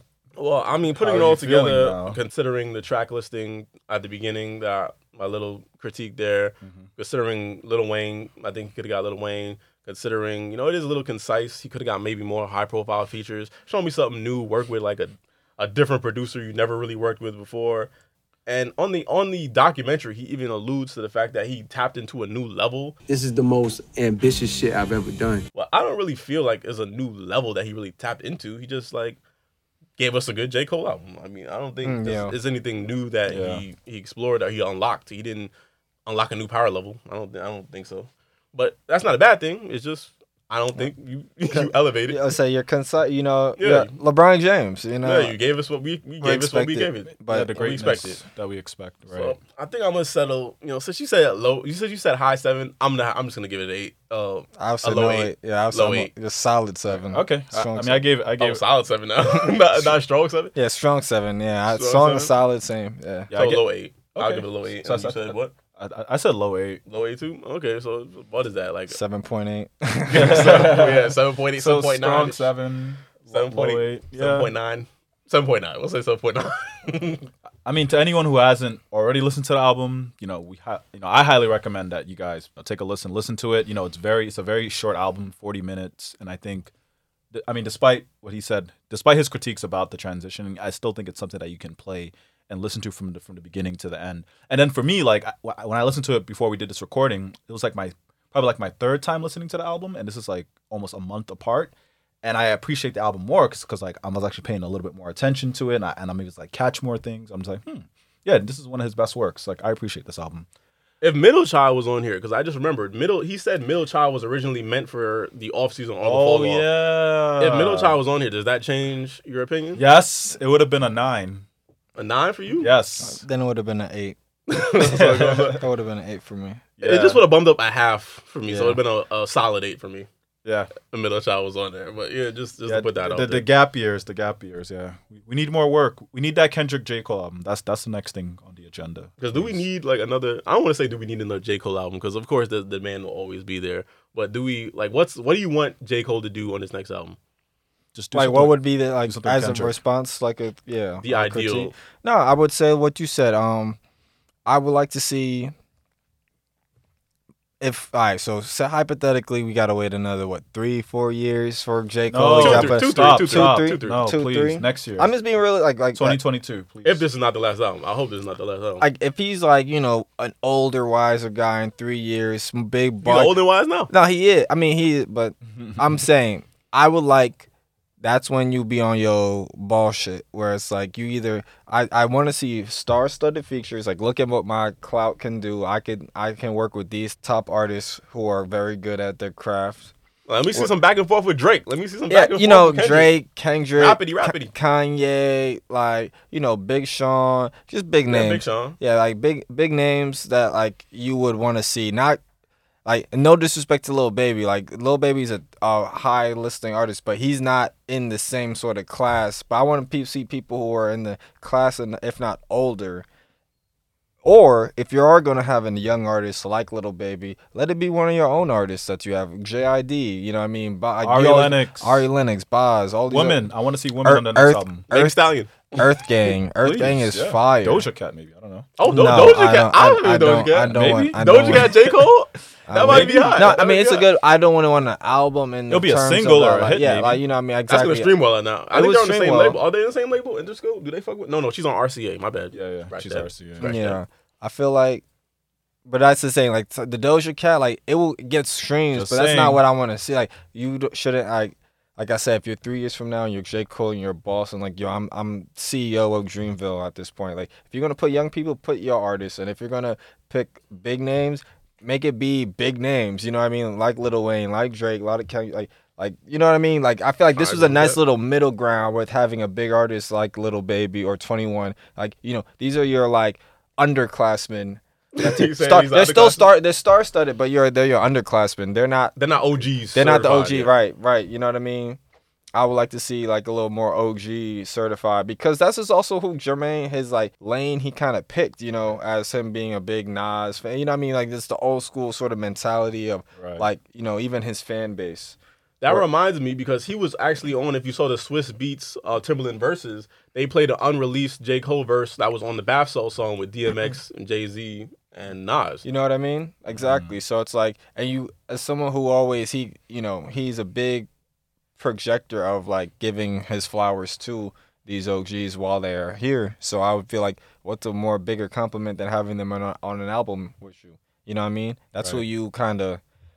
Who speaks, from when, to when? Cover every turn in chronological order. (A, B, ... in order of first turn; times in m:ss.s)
0:00.4-0:17.9 A
0:01.0-0:02.2 B
0:06.6-0:06.9 B
0:18.4-0:23.0 A
0:23.1-0:25.5 C
0:25.5-0:29.2 A
0:30.0-0:35.5 A
0:31.8-0:32.4 D
0:33.3-0:33.6 B
0:36.0-0:42.2 A
0:41.5-0:45.4 D
0:43.6-0:43.9 A
0:45.0-0:48.2 A
0:46.2-0:47.5 D
0:47.3-0:49.4 B
0:49.1-0:56.1 A
0:54.6-0:58.0 D
0:56.9-0:58.6 B
0:58.4-1:00.5 A
1:00.5-1:03.3 D
1:01.7-1:02.3 A
1:03.3-1:06.8 B
1:03.3-1:05.5 A
1:06.9-1:09.0 A
1:08.9-1:10.8 D
1:10.1-1:12.5 A
1:10.1-1:14.5 B
1:13.3-1:17.3 A
1:17.6-1:26.7 B
1:27.3-1:41.7 B
1:42.2-1:50.5 B
1:51.0-1:56.7 A
1:56.0-1:58.0 B
1:57.4-1:59.8 A
1:59.8-2:01.4 B
2:02.0-2:02.7 A
2:02.6-2:03.2 B
2:03.0-2:04.2 D
2:04.5-2:05.6 A
2:04.8-2:05.6 B
2:05.5-2:06.6 D
2:06.8-2:07.2 B
2:06.8-2:10.1 A
2:08.5-2:08.8 D
2:10.4-2:10.7 B
2:10.8-2:13.5 A
2:12.7-2:19.6 B
2:19.2-2:27.2 A
2:27.9-2:29.8 B
2:28.1-2:33.8 D
2:31.0-2:31.7 A
2:34.4-2:35.5 D
2:37.6-2:46.2 D
2:42.1-2:45.1 B
2:42.4-2:44.0 A
2:45.9-2:47.0 B
2:46.8-2:48.8 A
2:48.8-2:53.4 D
2:53.0-2:53.9 A
2:53.9-2:57.5 D
2:55.5-2:56.0 B
2:58.0-3:09.9 D
3:10.3-3:13.1 A
3:12.1-3:22.2 D
3:13.8-3:14.5 A
3:18.1-3:18.8 A
3:22.8-3:33.0 D
3:34.2-3:43.5 D
3:41.0-3:42.1 B
3:43.1-3:44.8 B
3:44.0-3:47.8 D
3:44.9-3:45.8 A
3:46.6-3:48.7 B
3:48.8-3:54.0 A
3:48.9-3:52.0 D
3:50.7-3:51.7 B
3:52.7-3:58.1 D
3:52.8-3:53.6 B
3:55.7-3:57.2 B
3:57.7-4:04.0 A
3:58.7-3:59.6 D
4:02.5-4:03.7 B
4:03.6-4:05.0 D
4:05.8-4:39.2 D
4:08.9-4:09.6 B
4:27.4-4:28.0 A
4:35.2-4:36.5 A
4:39.2-4:40.7 A
4:39.9-4:42.0 D
4:42.5-4:55.4 D
4:53.4-4:53.7 B
4:55.8-5:05.8 A
5:05.8-5:11.1 D
5:06.7-5:07.2 B
5:11.8-5:23.0 D